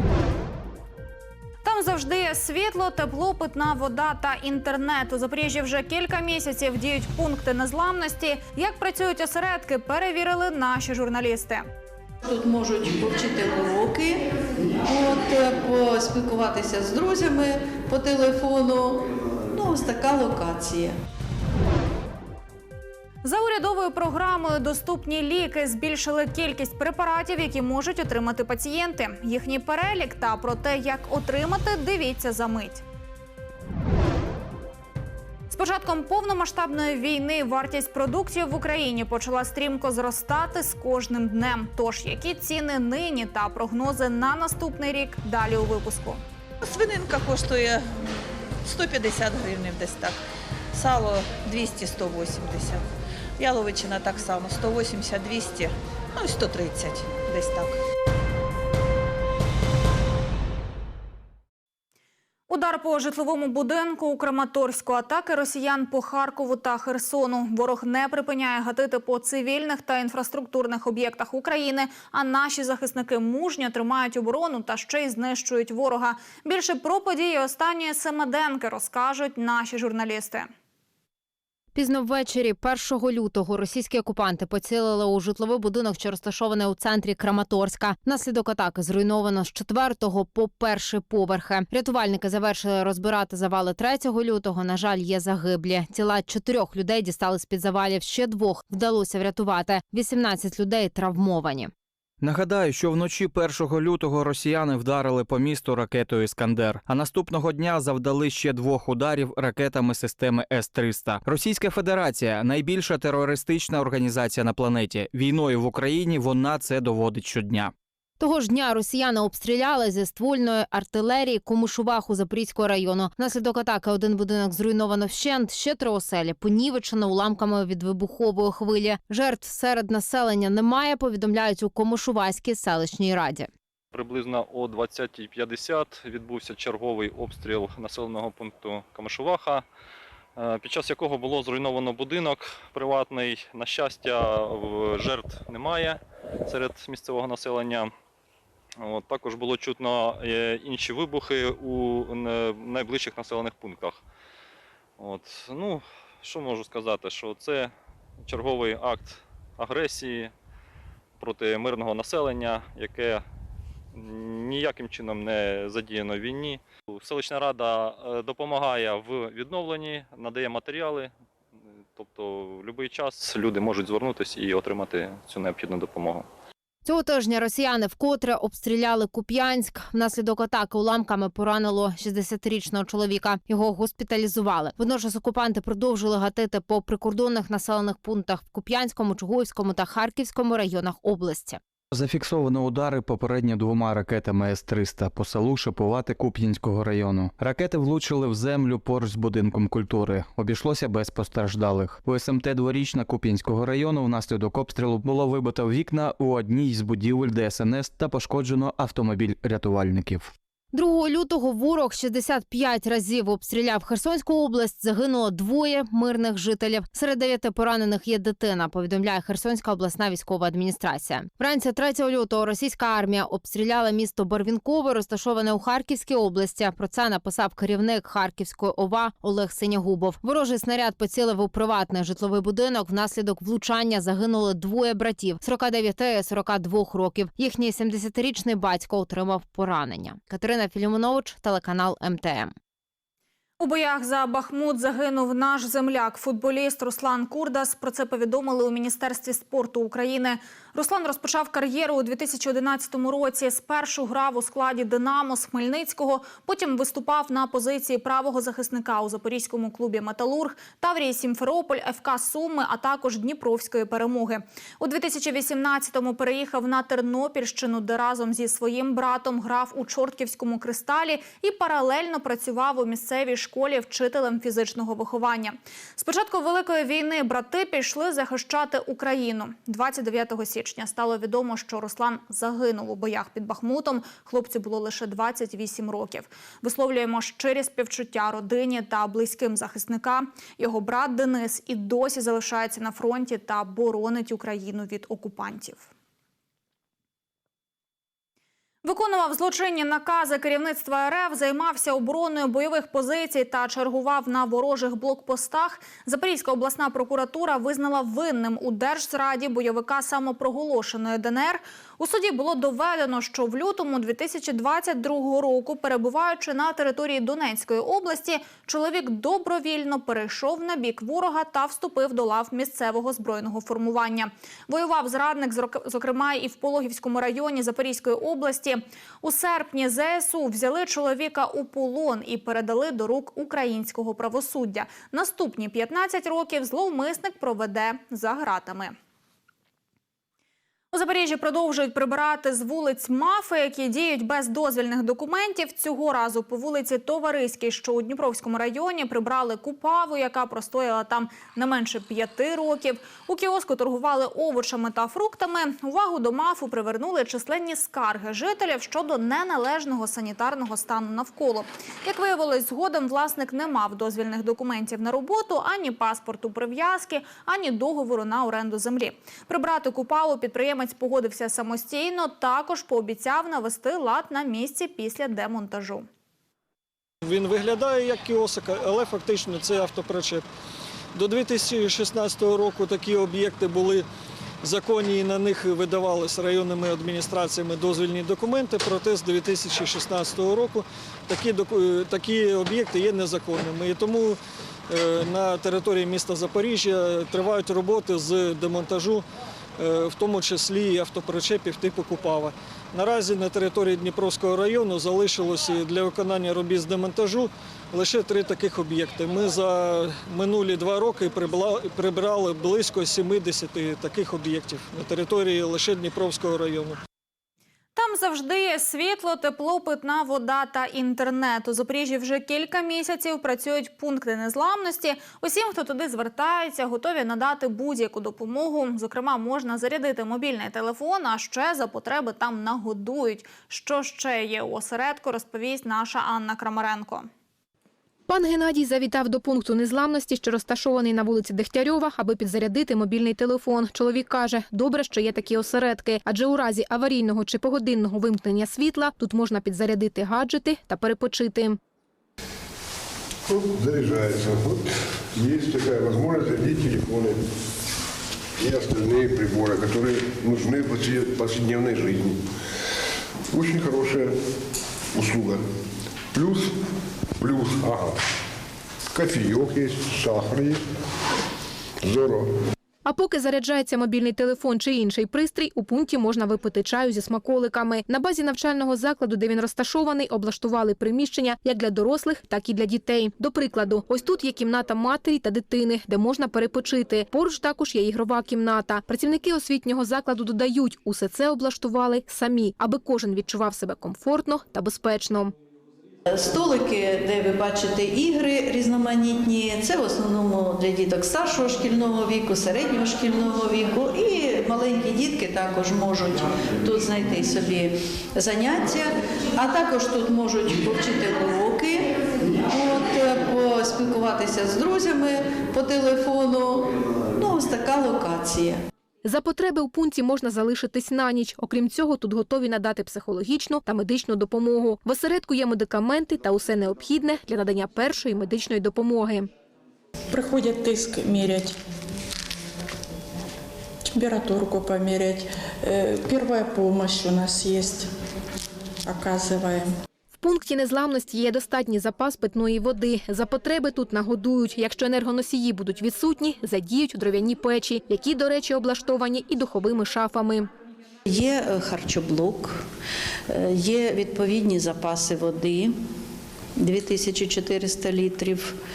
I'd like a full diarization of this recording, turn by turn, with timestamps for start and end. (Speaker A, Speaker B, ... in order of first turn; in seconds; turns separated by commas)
Speaker A: 1.6-11.6, Speaker B: 12.2-20.9, Speaker A: 23.2-32.8, Speaker A: 35.5-46.2, Speaker C: 46.6-47.9, Speaker C: 48.6-50.2, Speaker C: 50.7-52.8, Speaker C: 53.4-57.8, Speaker A: 62.5-80.5, Speaker D: 81.7-101.7, Speaker E: 102.2-117.7, Speaker D: 118.2-133.5, Speaker F: 133.9-139.6, Speaker F: 140.3-147.9, Speaker F: 148.8-154.0, Speaker F: 155.0-160.3, Speaker F: 161.2-163.2, Speaker F: 163.9-171.1, Speaker F: 171.9-176.3, Speaker D: 176.8-191.6, Speaker E: 191.9-210.3, Speaker D: 210.7-242.5, Speaker A: 243.6-295.9, Speaker A: 298.8-338.9, Speaker A: 340.9-376.1, Speaker G: 377.2-380.4, Speaker G: 381.1-384.1, Speaker G: 384.6-394.4, Speaker G: 394.9-399.2, Speaker G: 399.8-417.0, Speaker A: 417.9-437.3, Speaker H: 438.3-451.8, Speaker I: 453.5-457.4, Speaker I: 458.6-462.5, Speaker I: 463.5-464.4, Speaker I: 465.1-465.6, Speaker I: 466.3-466.7, Speaker I: 467.4-468.1, Speaker I: 469.1-470.8, Speaker I: 472.0-472.5, Speaker H: 473.1-495.5, Speaker B: 496.3-518.8, Speaker H: 519.2-529.5, Speaker J: 530.3-531.8, Speaker J: 534.1-538.1, Speaker J: 539.0-539.9, Speaker H: 540.4-550.7, Speaker B: 551.2-552.9, Speaker B: 553.5-556.0, Speaker B: 556.8-558.8